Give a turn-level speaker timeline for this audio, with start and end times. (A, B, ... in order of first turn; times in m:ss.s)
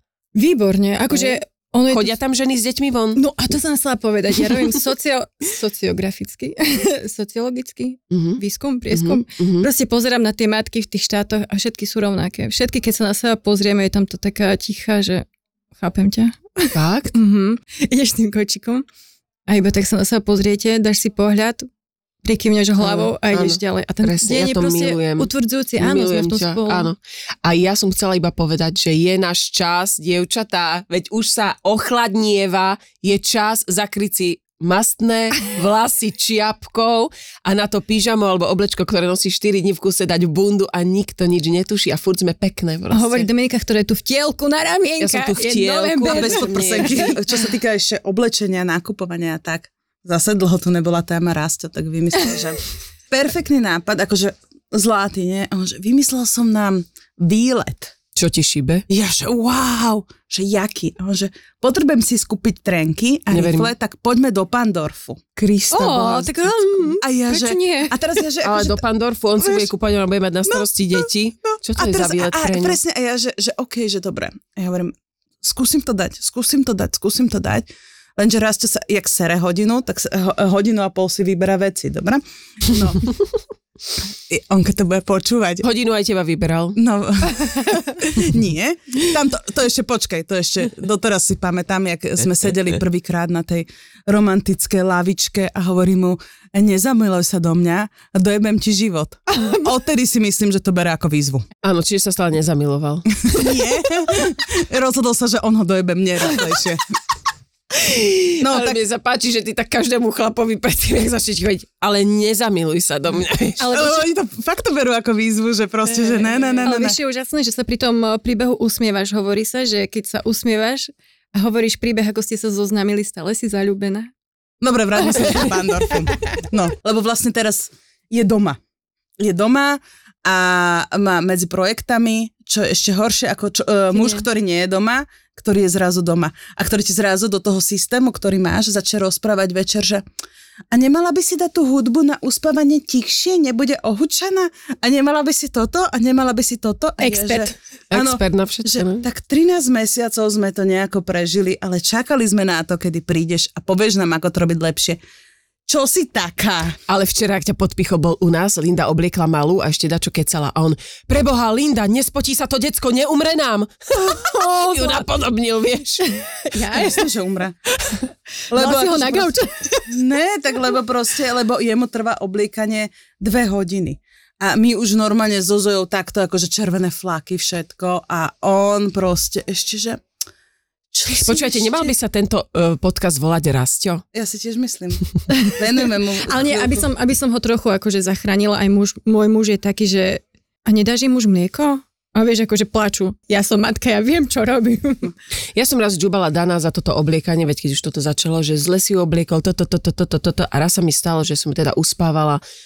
0:00.3-0:02.2 A
0:01.1-0:03.2 B
0:03.2-0:15.2 A
0:08.1-0:09.7 B
0:15.8-0:18.8 A
0:16.7-0:17.1 B
0:19.5-0:21.7 A
0:22.2-0:26.9 A
0:22.8-0:43.3 B
0:42.9-0:47.1 A
0:45.0-0:47.1 B
0:46.0-0:57.9 C
0:58.2-0:58.8 B
0:58.9-1:05.2 C
1:03.3-1:03.7 B
1:05.4-1:06.5 B
1:05.7-1:08.0 A
1:07.0-1:08.8 C
1:08.4-1:12.8 B
1:09.4-1:09.7 C
1:10.5-1:23.0 C
1:24.3-1:25.6 C
1:25.6-1:26.8 B
1:26.8-1:41.4 C
1:39.3-1:39.6 A
1:41.6-1:43.5 B
1:43.2-1:46.8 C
1:47.7-1:53.6 B
1:48.4-1:48.8 C
1:53.6-1:54.1 A
1:53.7-1:57.0 C
1:56.1-2:04.1 A
2:04.6-2:08.6 C
2:05.2-2:05.5 A
2:09.2-2:20.0 C
2:13.9-2:14.2 A
2:20.7-2:35.0 C
2:27.0-2:27.5 A
2:27.9-2:29.0 B
2:35.7-2:36.8 C
2:36.9-2:46.1 B
2:44.0-2:45.0 A
2:46.2-2:47.1 A
2:46.7-2:47.6 C
2:47.9-2:49.9 A
2:48.5-2:49.4 C
2:49.9-3:00.0 C
3:00.9-3:01.9 C
3:01.2-3:04.0 B
3:04.1-3:06.9 C
3:06.1-3:15.1 A
3:15.5-3:22.4 B